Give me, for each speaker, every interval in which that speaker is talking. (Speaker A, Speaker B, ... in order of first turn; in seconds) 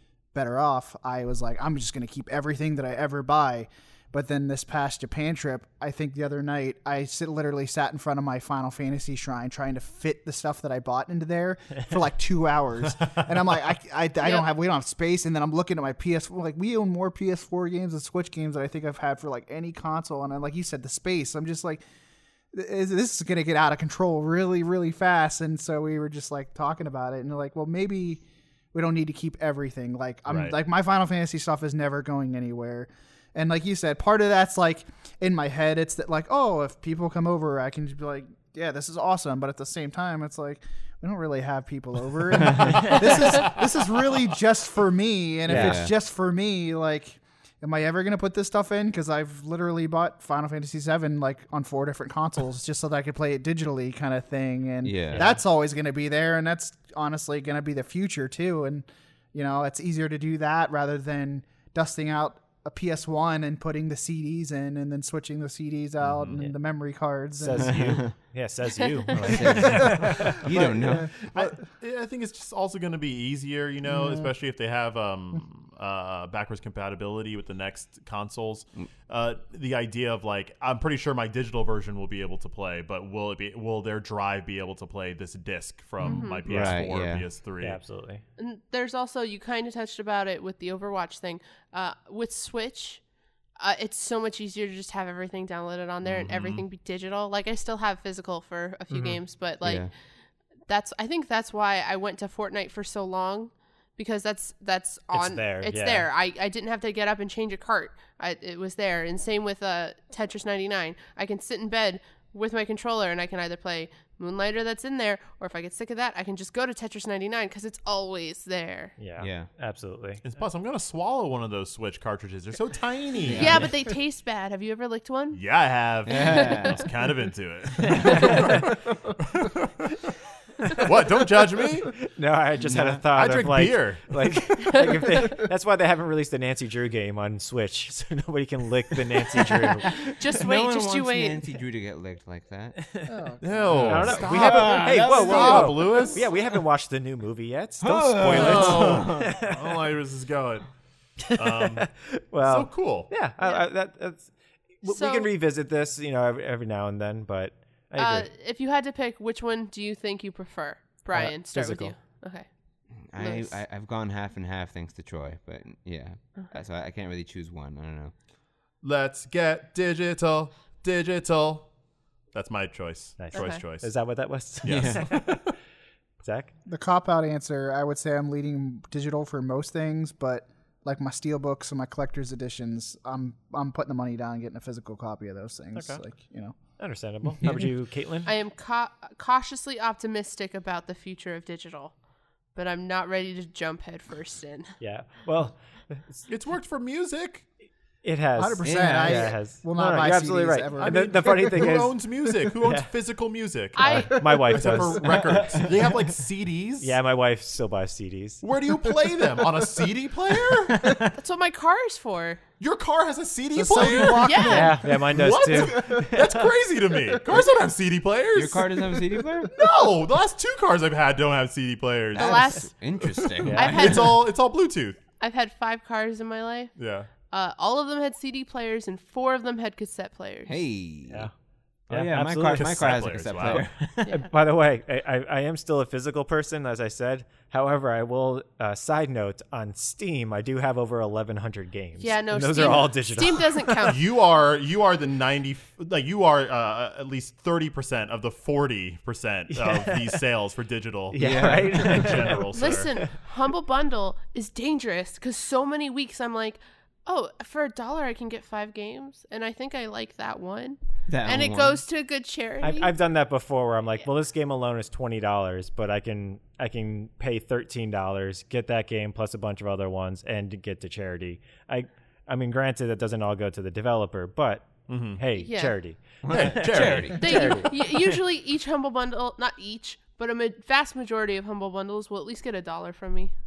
Speaker A: 0.3-21.8, 22.5-68.0, 69.4-71.6, 73.8-74.3, 143.1-145.7, 176.7-186.6, 198.4-202.5, 204.2-204.8, 209.2-211.1, 213.5-216.1, 217.1-217.5, 219.5-220.0
Speaker B: 14.2-14.5, 86.0-86.7, 88.4-93.0, 93.6-99.9, 100.7-118.9, 123.3-125.4, 126.2-126.7, 128.0-128.5, 134.7-135.2, 140.0-141.4, 154.8-155.3, 157.9-162.5, 163.2-163.6, 173.3-173.6, 188.2-191.9, 192.5-194.7, 203.7-204.2, 211.2-212.4, 214.0-214.8, 222.1-222.8, 223.5-224.2, 225.2-230.6, 242.0-244.0, 252.5-262.9, 275.3-275.8, 277.1-283.3
Speaker C: 30.3-30.5, 66.0-66.4, 71.3-87.8, 96.0-96.7, 120.2-123.7, 125.3-129.9, 130.7-131.9, 133.1-134.2, 143.4-146.3, 148.2-150.7, 151.3-151.9, 152.4-153.1, 168.8-171.7, 172.3-173.9, 174.6-175.5, 196.3-197.5, 200.8-206.9, 208.4-211.0, 212.6-218.9, 219.5-225.0, 226.8-227.1, 232.5-233.7, 243.9-252.9, 274.9-275.2, 276.3-277.3
Speaker D: 42.4-42.8, 45.5-45.9, 54.8-55.3, 67.6-68.1, 69.2-71.1, 86.5-87.2, 99.6-99.9, 119.2-119.5, 123.2-123.7, 126.0-126.8, 132.6-133.0, 139.9-142.8, 143.7-146.1, 147.8-149.3, 162.9-168.1, 174.7-175.1, 198.6-199.3, 218.3-219.5, 222.1-224.1, 230.5-231.3, 231.9-234.1, 251.2-252.4, 261.1-261.8, 276.2-277.6
Speaker E: 45.5-45.8, 55.1-55.4, 67.4-70.4, 87.6-88.2, 98.9-99.2, 105.1-106.1, 119.0-120.2, 127.8-128.7, 130.6-130.9, 131.9-140.0, 143.8-149.8, 151.3-154.3, 154.8-158.3, 161.1-161.9, 173.2-175.4, 176.2-176.5, 185.7-186.0, 186.8-188.3, 194.8-196.3, 198.0-201.9, 202.5-202.9, 203.8-205.2, 206.8-208.4, 214.4-216.5, 223.4-223.7, 231.9-243.9, 249.5-250.2, 251.1-253.1, 262.6-278.1